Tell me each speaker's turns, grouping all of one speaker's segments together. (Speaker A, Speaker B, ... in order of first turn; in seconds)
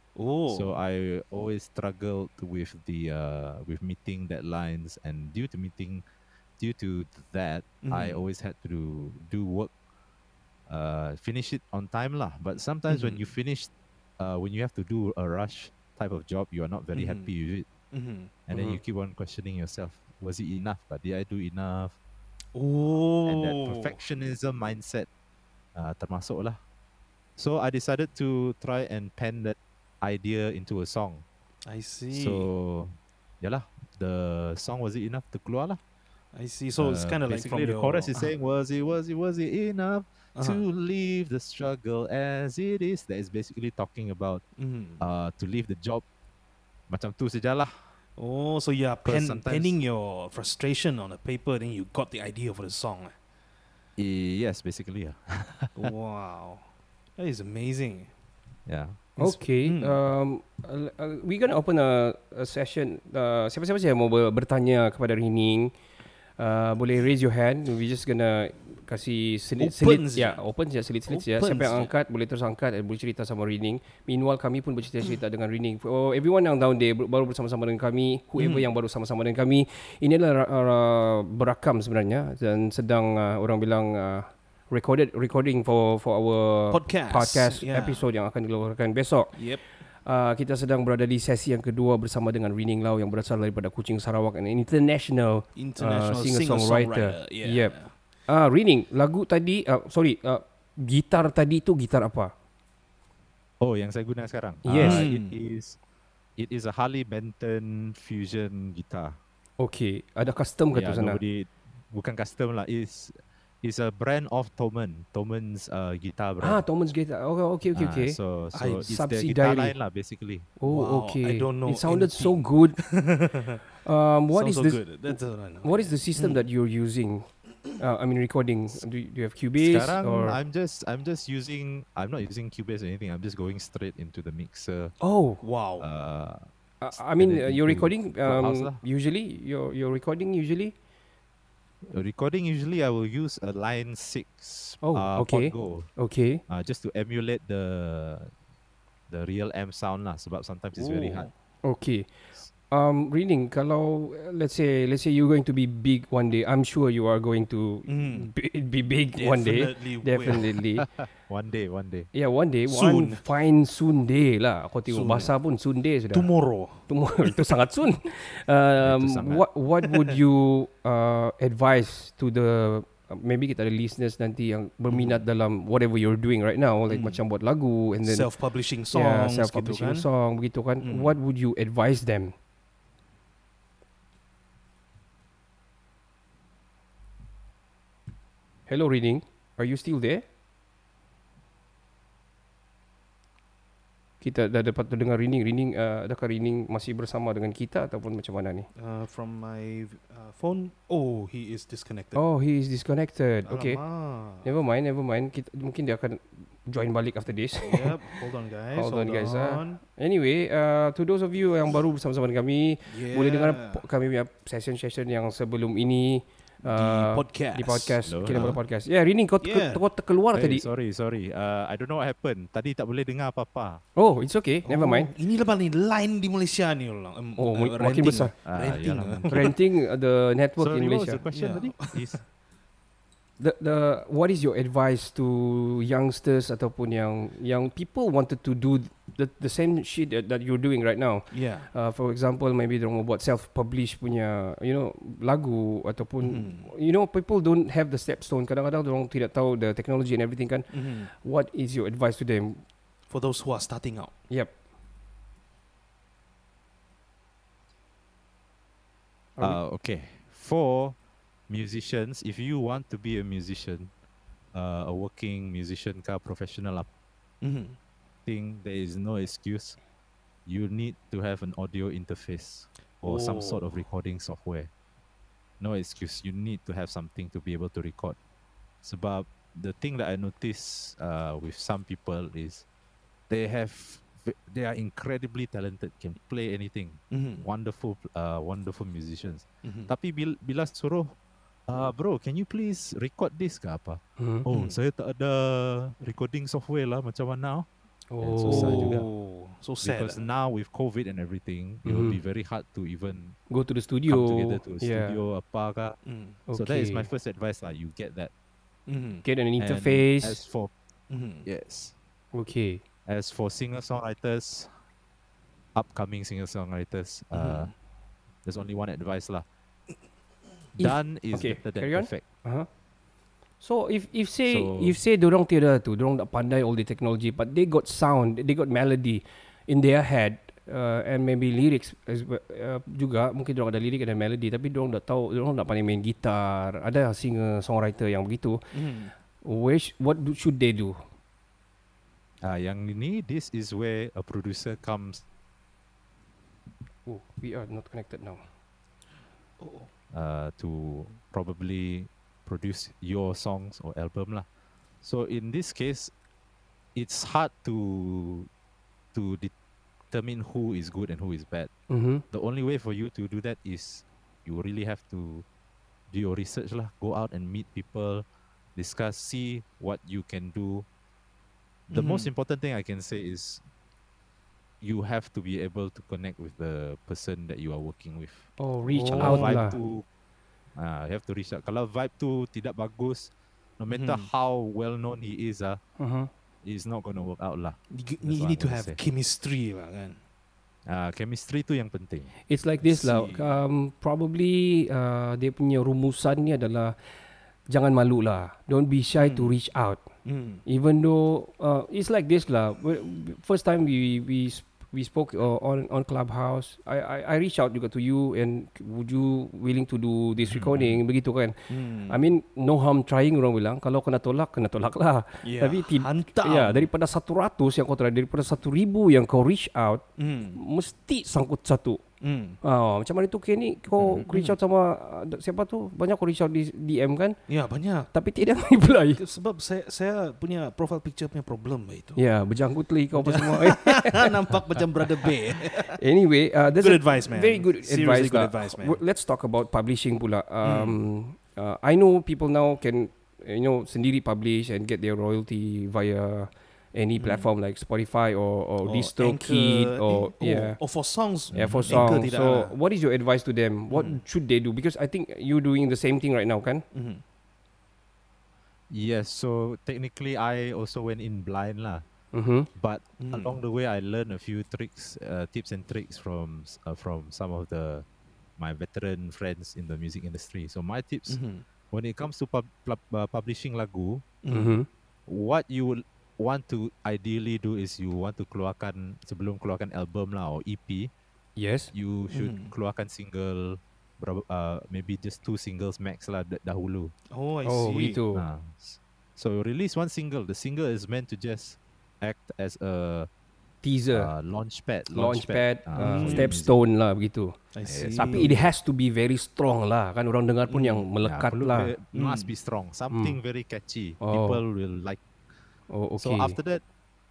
Speaker A: 0.2-0.7, 7.8-8.2, 12.9-13.2, 16.9-17.3, 17.9-18.8, 22.6-23.9, 31.7-32.5, 36.3-38.3, 40.4-40.6, 44.6-45.0, 48.2-53.2, 55.8-58.1, 59.2-60.0, 69.6-70.4, 71.1-71.9, 78.4-78.7, 86.7-88.0, 89.3-89.6, 95.6-97.9, 104.7-105.4, 118.5-118.9, 120.6-123.6, 124.3-126.5, 135.4-135.9, 150.8-151.3, 157.9-158.3, 159.2-160.5, 162.7-163.2, 164.9-165.3, 166.1-167.4, 169.8-170.1, 174.9-175.2, 176.9-177.2, 178.0-180.1, 180.8-181.2, 198.8-202.2, 203.5-204.5, 207.7-209.8, 212.9-213.8, 216.6-218.6, 219.4-219.8, 224.7-229.6, 231.3-232.2, 241.3-241.7, 246.2-246.7, 250.7-251.1, 253.1-254.1, 267.4-267.8, 273.0-273.7, 287.1-287.4, 289.6-289.9, 294.5-294.8, 298.4-300.2, 306.1-306.4, 308.9-309.2, 311.1-311.5, 317.3-317.7, 338.7-339.1, 349.6-349.9, 371.9-372.3, 378.9-379.6, 383.9-384.3, 387.9-390.2, 392.8-393.6, 399.2-399.6, 400.2-400.6, 411.7-412.2, 415.4-416.9, 420.2-420.6, 422.2-422.6, 424.0-424.6, 427.5-428.1, 429.2-432.2, 433.2-436.0, 436.8-439.0, 440.6-441.0, 447.2-447.5, 448.8-452.7, 453.9-454.2, 456.9-457.2, 463.2-463.6, 471.3-471.6, 474.4-474.8, 482.3-482.7, 487.3-488.2, 496.0-496.5, 497.7-498.5, 500.7-501.1, 502.1-502.5
Speaker B: 0.5-6.0, 6.6-9.7, 10.7-17.7, 18.5-21.9, 23.3-25.1, 25.8-26.6, 27.4-31.2, 32.1-35.8, 36.8-44.4, 45.0-46.0, 46.9-47.7, 49.0-49.8, 54.0-55.9, 58.7-59.0, 103.6-105.8, 106.4-109.2, 110.7-116.6, 117.7-120.5, 129.6-134.9, 135.8-138.8, 141.8-145.9, 146.5-148.3, 149.1-151.3, 160.8-162.1, 168.8-169.5, 218.0-218.6, 220.3-223.8, 228.4-229.5, 230.6-232.2, 259.4-261.0, 261.5-263.9, 264.5-266.9, 268.3-269.8, 270.5-274.7, 275.6-278.2, 278.8-282.6, 283.3-291.1, 291.7-297.7, 298.2-299.1, 299.8-303.4, 304.1-306.0, 306.5-308.3, 309.6-310.7, 311.4-311.9, 313.1-314.7, 315.8-317.7, 318.4-319.4, 320.8-322.2, 324.5-325.0, 342.4-345.2, 350.1-354.5, 355.0-356.1, 356.9-358.5, 359.1-359.5, 360.1-361.7, 362.3-365.4, 366.1-368.2, 368.8-370.9, 371.9-373.6, 374.8-380.1, 380.8-385.8, 386.6-389.0, 390.9-392.3, 410.5-410.9, 451.5-452.2, 458.9-462.1, 462.8-468.1, 468.6-471.4, 471.9-474.2, 475.3-481.1, 481.9-487.1, 488.3-493.3, 494.1-496.8, 497.9-498.7, 501.2-505.2, 506.2-506.8
Speaker C: 59.2-65.7, 66.4-89.4, 90.0-97.8, 98.3-102.3, 104.6-105.0, 109.6-111.2, 116.4-118.2, 118.8-119.8, 120.6-122.8, 123.8-130.4, 135.0-135.4, 136.8-140.7, 144.8-146.4, 151.6-152.1, 152.7-160.8, 162.1-166.3, 166.9-178.3, 178.9-182.3, 188.7-190.2, 194.2-198.7, 202.2-203.8, 204.4-207.9, 208.8-220.7, 224.0-225.1, 227.4-228.3, 229.3-231.2, 233.4-252.6, 294.2-294.4, 298.1-299.0, 301.9-302.2, 303.5-305.2, 306.5-307.1, 309.2-310.4, 312.3-312.8, 320.8-322.7, 323.6-338.6, 339.4-341.0, 347.1-348.4, 361.9-362.2, 378.6-379.8, 386.0-386.3, 392.5-396.9, 397.7-400.1, 400.7-411.6, 412.1-420.1, 420.6-422.0, 422.6-427.4, 428.1-429.2, 432.2-434.3, 435.9-450.8, 451.5-456.8, 462.3-462.7, 474.5-474.9, 481.6-481.9, 487.6-488.4, 493.8-494.3, 495.1-497.6, 498.1-501.9, 503.1-503.4, 504.2-504.6, 505.9-506.6